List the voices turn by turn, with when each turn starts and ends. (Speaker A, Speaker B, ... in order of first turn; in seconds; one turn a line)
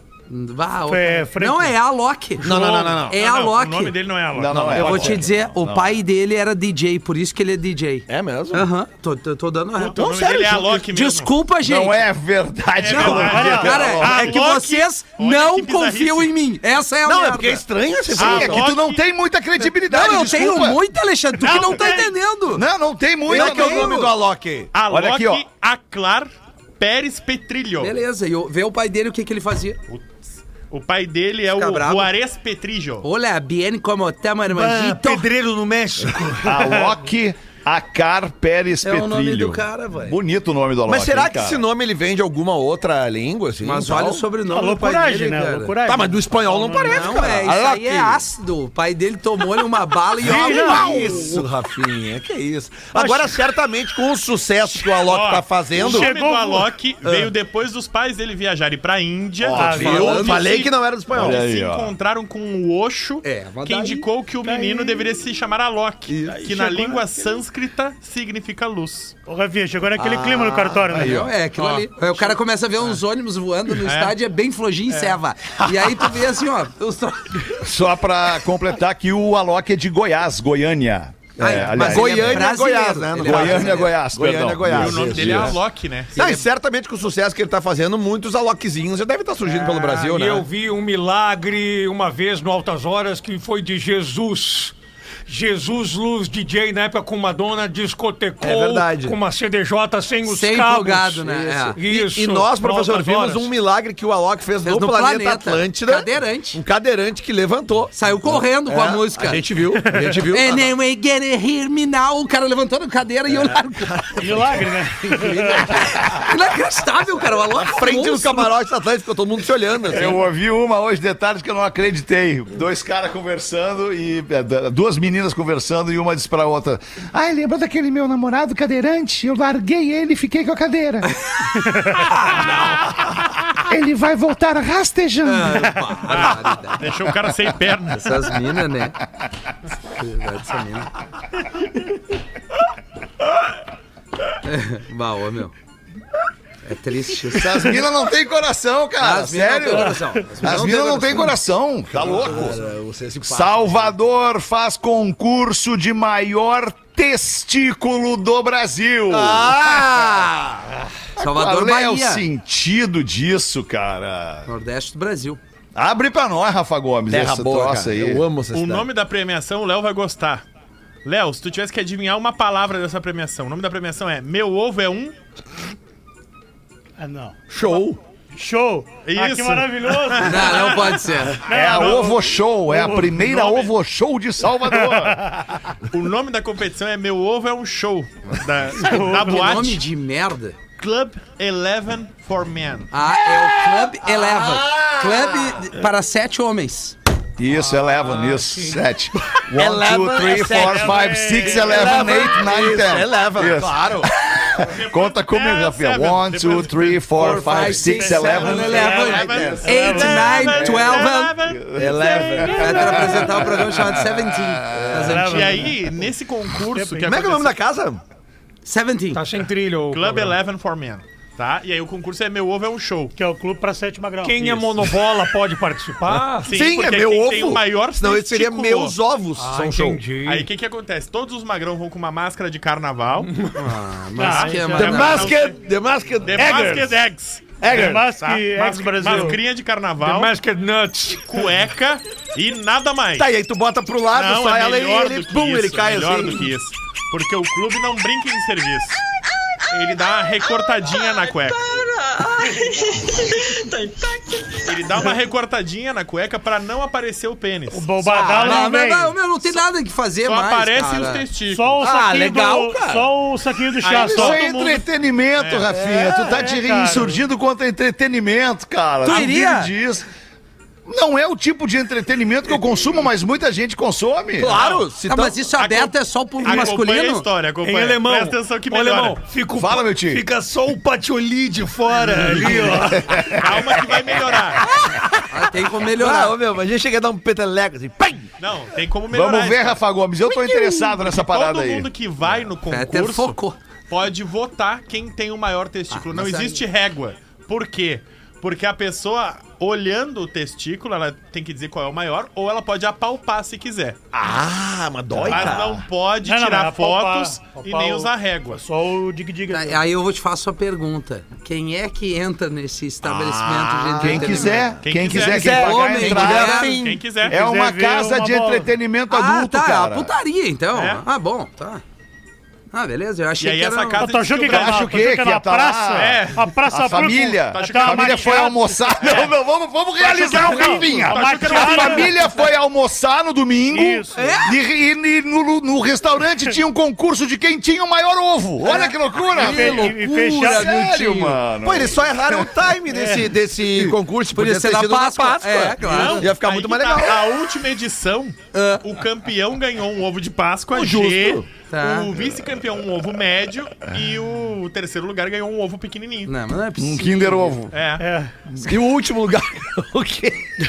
Speaker A: 0.3-2.5
Speaker B: 0.9-1.7
Speaker C: 2.4-3.2
Speaker D: 2.4-5.2
Speaker A: 3.1-4.0
Speaker E: 4.3-6.0
Speaker A: 4.7-10.0
Speaker C: 8.1-8.7
Speaker D: 9.8-11.3
Speaker C: 10.0-10.8
Speaker A: 10.9-12.0
Speaker E: 11.6-14.3
Speaker D: 12.8-16.3
Speaker B: 13.0-13.9
Speaker A: 13.2-17.6
Speaker C: 17.1-18.7
Speaker D: 18.2-19.0
Speaker E: 18.2-20.8
Speaker A: 19.9-22.6
Speaker D: 21.4-22.1
Speaker E: 22.6-24.1
Speaker A: 23.3-24.1
Speaker C: 23.3-24.7
Speaker D: 24.7-28.0
Speaker E: 24.9-25.4
Speaker A: 27.8-29.8
Speaker D: 29.9-33.1
Speaker A: 31.6-32.1
Speaker A: 33.0-35.3
Speaker F: 34.5-36.4
Speaker B: 34.9-35.3
Speaker B: 36.2-36.9
Speaker E: 36.4-41.6
Speaker A: 38.8-40.2
Speaker C: 40.9-44.3
Speaker A: 43.6-45.7
Speaker B: 44.5-47.3
Speaker C: 45.9-48.2
Speaker A: 46.9-51.0
Speaker C: 50.2-56.1
Speaker B: 50.2-51.5
Speaker B: 53.0-53.3
Speaker D: 54.9-69.2
Speaker B: 55.8-56.7
Speaker E: 59.4-60.0
Speaker B: 59.5-60.4
Speaker C: 59.5-61.4
Speaker A: 59.8-60.4
Speaker E: 61.1-61.9
Speaker A: 63.2-63.8
Speaker C: 63.4-64.0
Speaker B: 64.4-65.1
Speaker C: 66.1-66.4
Speaker B: 66.2-67.4
Speaker B: 69.3-71.3
Speaker C: 70.0-71.3
Speaker A: 70.9-77.6
Speaker D: 71.6-71.8
Speaker D: 73.8-74.2
Speaker E: 77.6-82.5
Speaker A: 81.4-83.9
Speaker C: 81.4-85.6
Speaker E: 83.2-85.5
Speaker D: 84.7-86.5
Speaker C: 86.2-90.5
Speaker F: 89.4-94.8
Speaker F: 95.3-103.0
Speaker C: 98.4-99.2
Speaker A: 100.3-101.8
Speaker C: 101.3-110.7
Speaker B: 103.0-103.4
Speaker A: 104.6-106.6
Speaker A: 107.9-109.5
Speaker A: 110.1-114.2
Speaker C: 113.3-115.9
Speaker B: 114.2-115.8
Speaker A: 115.4-118.5
Speaker C: 117.5-120.2
Speaker E: 119.9-131.2
Speaker A: 131.9-132.4
Speaker E: 133.6-136.2
Speaker A: 135.2-136.9
Speaker D: 136.1-138.3
Speaker A: 138.0-139.0
Speaker A: 139.9-140.9
Speaker A: 144.4-145.5
Speaker A: 146.7-147.8
Speaker E: 147.3-152.7
Speaker A: 149.0-151.4
Speaker C: 151.9-153.9
Speaker E: 153.2-160.1
Speaker C: 159.1-160.8
Speaker E: 161.2-164.5
Speaker A: 161.2-162.3
Speaker A: 164.5-165.4
Speaker E: 165.8-168.2
Speaker C: 167.1-168.9
Speaker D: 168.5-170.4
Speaker D: 171.1-175.1
Speaker B: 177.0-177.4
Speaker C: 177.5-178.0
Speaker B: 178.3-180.9
Speaker D: 179.1-182.0
Speaker A: 180.2-181.4
Speaker B: 181.4-183.2
Speaker E: 181.5-185.3
Speaker D: 183.2-183.7
Speaker B: 184.8-185.4
Speaker D: 185.9-189.8
Speaker B: 188.8-189.7
Speaker A: 188.9-190.6
Speaker D: 190.8-192.9
Speaker A: 192.9-197.0
Speaker C: 193.8-195.7
Speaker E: 197.4-209.5
Speaker F: 198.1-198.8
Speaker C: 199.3-204.1
Speaker B: 200.5-202.3
Speaker D: 204.6-207.3
Speaker A: 207.1-211.3
Speaker B: 207.6-210.6
Speaker C: 208.3-209.7
Speaker D: 208.3-212.8
Speaker E: 210.6-215.1
Speaker C: 211.7-213.5
Speaker B: 212.3-213.4
Speaker A: 212.4-215.7
Speaker C: 214.7-215.6
Speaker B: 214.9-215.9
Speaker D: 215.2-217.6
Speaker B: 216.7-217.1
Speaker C: 217.0-218.0
Speaker A: 218.7-219.2
Speaker F: 219.1-220.4
Speaker D: 219.9-223.1
Speaker B: 223.2-224.7
Speaker F: 224.2-226.5
Speaker D: 226.4-229.0
Speaker C: 226.5-230.0
Speaker F: 229.4-230.5
Speaker D: 230.2-233.5
Speaker A: 233.6-235.4
Speaker B: 234.2-235.3
Speaker D: 234.2-235.6
Speaker C: 234.8-237.0
Speaker D: 236.2-240.3
Speaker C: 237.6-238.1
Speaker B: 237.7-239.4
Speaker F: 240.0-241.4
Speaker D: 241.2-243.3
Speaker C: 243.2-246.5
Speaker D: 244.1-249.0
Speaker D: 249.7-251.8
Speaker B: 252.5-252.8
Speaker D: 254.6-258.7
Speaker B: 257.7-259.2
Speaker A: 258.3-261.3
Speaker D: 260.2-261.9
Speaker B: 261.5-264.4
Speaker C: 261.8-263.1
Speaker D: 263.8-264.9
Speaker E: 263.9-270.1
Speaker D: 265.4-265.7
Speaker C: 265.8-266.2
Speaker B: 265.8-267.2
Speaker A: 269.0-269.7
Speaker E: 270.9-274.6
Speaker C: 274.4-275.4
Speaker D: 274.4-274.9
Speaker A: 275.1-277.3
Speaker D: 275.6-279.3
Speaker F: 277.6-283.1
Speaker E: 279.6-280.2
Speaker B: 281.9-283.1
Speaker E: 282.9-284.1
Speaker D: 283.3-284.7
Speaker C: 284.6-285.1
Speaker A: 285.2-286.4
Speaker C: 285.8-288.3
Speaker D: 288.4-289.8
Speaker E: 289.1-291.9
Speaker D: 290.9-293.4
Speaker A: 292.7-293.6
Speaker D: 293.9-304.0
Speaker A: 295.9-296.6
Speaker C: 304.1-305.8
Speaker E: 305.1-305.8
Speaker D: 305.2-308.6
Speaker B: 306.2-309.8
Speaker A: 309.5-314.7
Speaker E: 313.6-316.6
Speaker C: 314.0-314.4
Speaker D: 314.8-315.7
Speaker C: 315.1-317.1
Speaker A: 315.4-316.8
Speaker D: 316.5-317.4
Speaker B: 317.3-318.7
Speaker E: 317.3-320.1
Speaker A: 319.1-321.8
Speaker D: 320.7-321.0
Speaker A: 322.7-324.1
Speaker D: 323.4-324.9
Speaker B: 324.0-329.2
Speaker E: 324.5-342.5
Speaker D: 325.9-326.4
Speaker D: 327.0-329.3
Speaker B: 330.0-332.2
Speaker D: 330.2-332.1
Speaker B: 333.7-334.4
Speaker C: 334.2-334.5
Speaker A: 338.6-341.4
Speaker B: 339.3-340.8
Speaker C: 341.6-347.2
Speaker B: 342.9-343.3
Speaker A: 344.3-346.3
Speaker D: 345.8-356.3
Speaker A: 348.5-348.9
Speaker C: 350.7-351.4
Speaker A: 351.7-352.1
Speaker A: 356.3-357.6
Speaker E: 356.8-357.8
Speaker D: 357.7-358.1
Speaker B: 358.0-358.3
Speaker C: 358.6-360.5